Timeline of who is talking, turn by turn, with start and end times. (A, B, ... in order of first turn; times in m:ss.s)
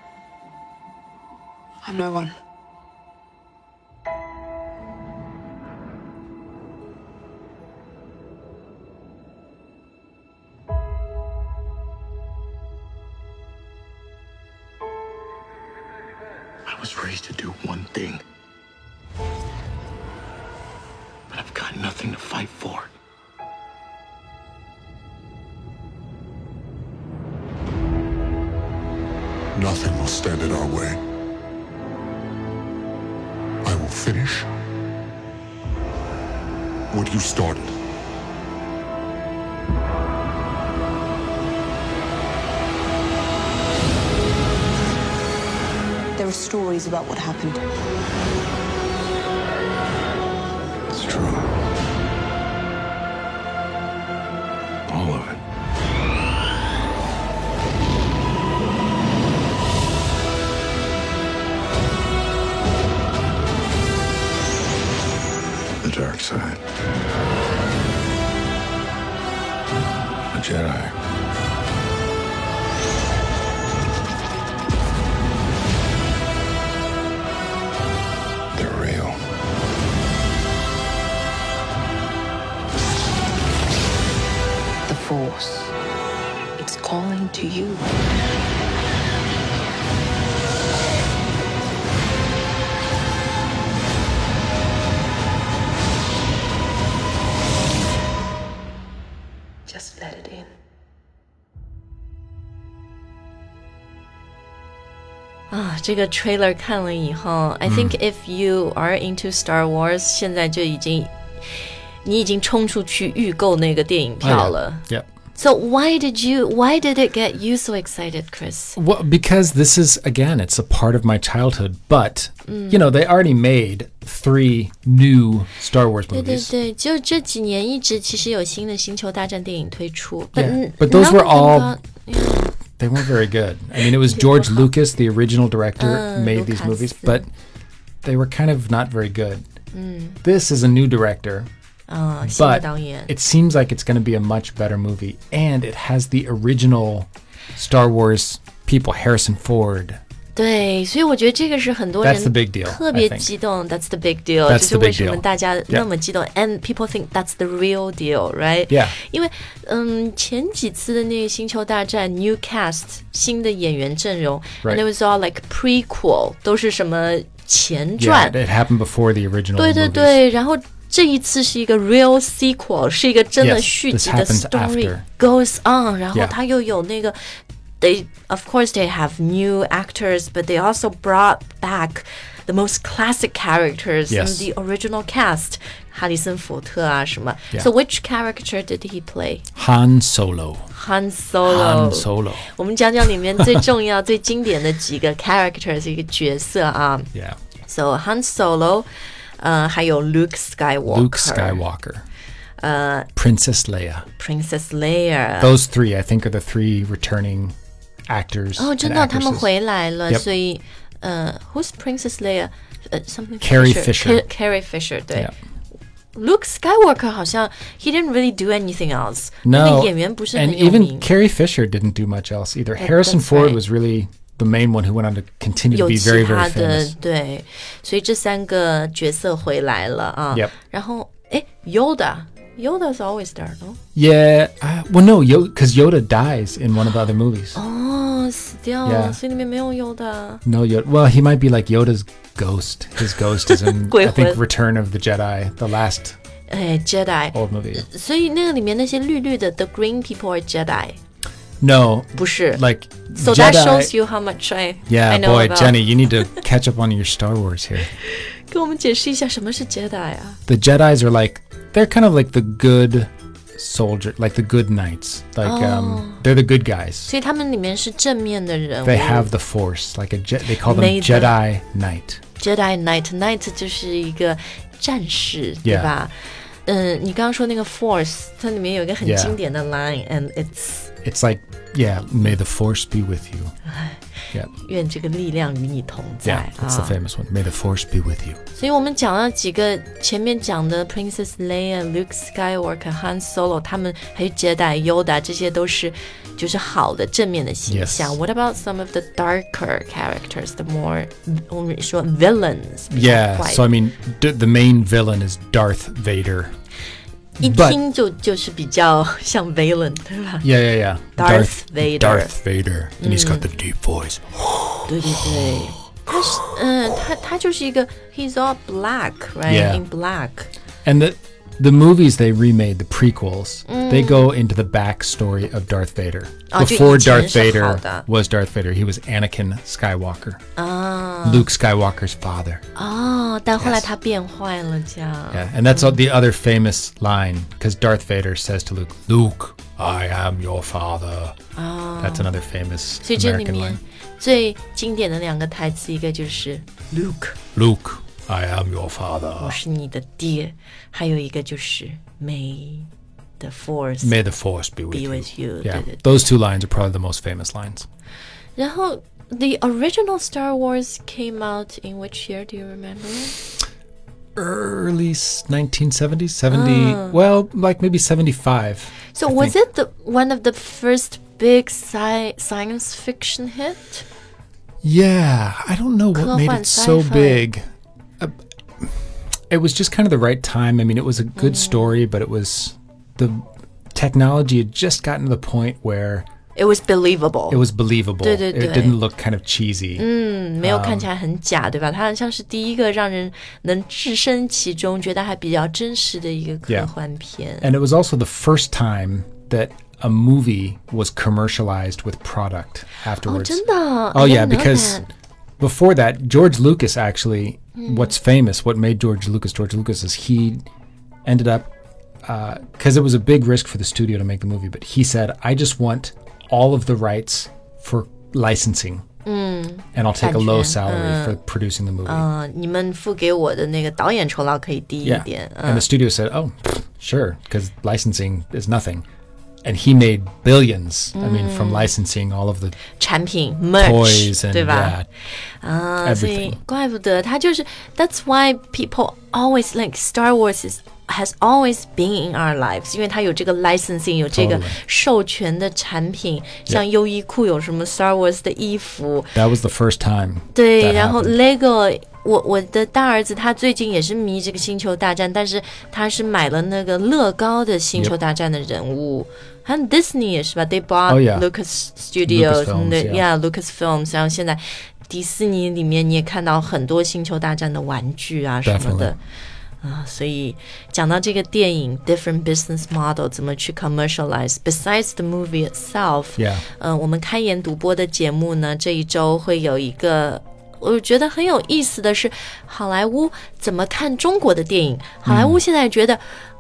0:01.8-0:02.4 A
0:16.7-0:18.2 B
0:21.3-0:22.9 B
0:29.6-0:31.0 C
0:33.6-0:34.5 C
0:36.9-0:37.8 C
0:46.2-0:47.6 A
0:50.9-0:51.5 B
0:54.9-0:55.4 B
1:05.8-1:06.6 B
1:10.3-1:10.9 B
1:18.5-1:19.2 B
1:24.9-1:25.7 A
1:26.6-1:27.8 A
1:39.7-1:40.5 A
1:45.5-1:58.8 D
1:47.7-1:48.0 E
1:54.2-1:55.1 E
1:58.8-2:06.5 E
2:02.5-2:02.8 D
2:06.1-2:12.6 D
2:10.4-2:11.8 E
2:12.8-2:17.3 E
2:14.2-2:14.6 D
2:15.8-2:17.2 D
2:18.0-2:19.4 E
2:19.7-2:20.2 D
2:20.2-2:21.5 E
2:21.9-2:23.1 D
2:22.2-2:30.0 E
2:30.4-2:48.4 D
2:32.0-2:33.3 E
2:34.5-2:35.9 E
2:38.7-2:39.0 E
2:48.0-2:50.2 E
2:49.6-2:57.2 D
2:53.4-2:55.0 E
2:57.8-3:09.4 D
3:04.1-3:04.5 E
3:09.6-3:10.7 E
3:10.7-3:17.1 D
3:11.4-3:12.5 E
3:13.4-3:13.6 E
3:17.7-3:18.9 D
3:19.4-3:21.6 D
3:20.9-3:22.1 E
3:22.6-3:23.1 D
3:23.2-3:24.1 E
3:24.2-3:25.5 D
3:25.4-3:27.6 E
3:28.1-3:29.5 E
3:28.6-3:35.3 D
3:33.4-3:34.2 E
3:36.2-3:41.1 D
3:39.4-3:46.9 E
3:42.8-3:43.6 D
3:45.7-3:53.8 D
3:54.0-3:57.6 E
3:57.6-4:00.4 D
3:58.8-3:59.2 E
4:00.4-4:06.2 E
4:03.5-4:04.4 D
4:06.5-4:11.0 D
4:07.3-4:07.9 E
4:11.6-4:13.9 E
4:12.2-4:12.6 D
4:13.2-4:16.4 D
4:14.9-4:17.9 E
4:18.0-4:20.4 D
4:20.5-4:27.1 E
4:25.4-4:26.2 D
4:27.1-4:29.3 D
4:28.8-4:32.2 E
4:30.6-4:31.4 D
4:32.4-4:36.1 D
4:35.6-4:35.9 E
4:36.7-4:40.9 D
4:39.0-4:39.4 E
4:41.0-4:43.5 E
4:43.7-4:44.0 D
4:44.5-4:47.0 D
4:46.2-4:48.4 E
4:48.6-5:03.7 D
4:57.7-4:58.2 E
5:02.9-5:06.5 E
5:07.4-5:07.8 E
5:07.4-5:10.5 D
5:10.4-5:16.1 E
5:11.2-5:12.4 D
5:13.0-5:13.5 D
5:14.9-5:20.5 D
5:19.5-5:19.8 E
5:20.8-5:30.4 E
5:23.7-5:24.3 D
5:26.5-5:28.0 D
5:30.6-5:31.5 D
5:31.2-5:32.6 E
5:32.8-5:36.0 D
5:33.6-5:33.9 E
5:35.3-5:41.4 E
5:41.6-5:42.3 D
5:42.0-5:43.8 E
5:43.0-5:47.4 D
5:47.6-5:49.6 E
5:49.4-5:54.2 D
5:54.0-5:57.9 E
5:54.9-5:56.2 D
5:58.6-6:03.4 D
6:04.4-6:09.6 E
6:06.5-6:07.2 D
6:09.2-6:14.0 D
6:14.8-6:17.6 E
6:16.1-6:17.5 D
6:18.2-6:19.0 E
6:19.5-6:26.3 E
6:21.4-6:22.0 D
6:26.6-6:27.7 D
6:27.5-6:30.1 E
6:28.2-6:29.0 D
6:30.0-6:37.7 D
6:30.6-6:31.1 E
6:37.6-6:45.0 E
6:43.2-6:45.1 D
6:45.6-6:50.6 E
6:47.8-6:48.1 D
6:51.3-6:51.7 E
6:52.2-6:59.0 E
6:59.2-7:01.4 D
6:59.9-7:02.3 E
7:02.0-7:05.9 D
7:05.0-7:09.0 E
7:09.6-7:12.8 E
7:11.2-7:11.9 D
7:13.0-7:15.0 D
7:13.8-7:15.1 E
7:15.6-7:29.4 D
7:16.0-7:16.6 E
7:24.3-7:24.8 E
7:29.4-7:31.4 E
7:30.5-7:49.2 D
7:41.1-7:41.5 E
7:42.2-7:43.2 E
7:48.6-7:49.2 E
7:49.8-8:06.2 D
7:56.4-7:56.6 E
8:05.3-8:05.6 E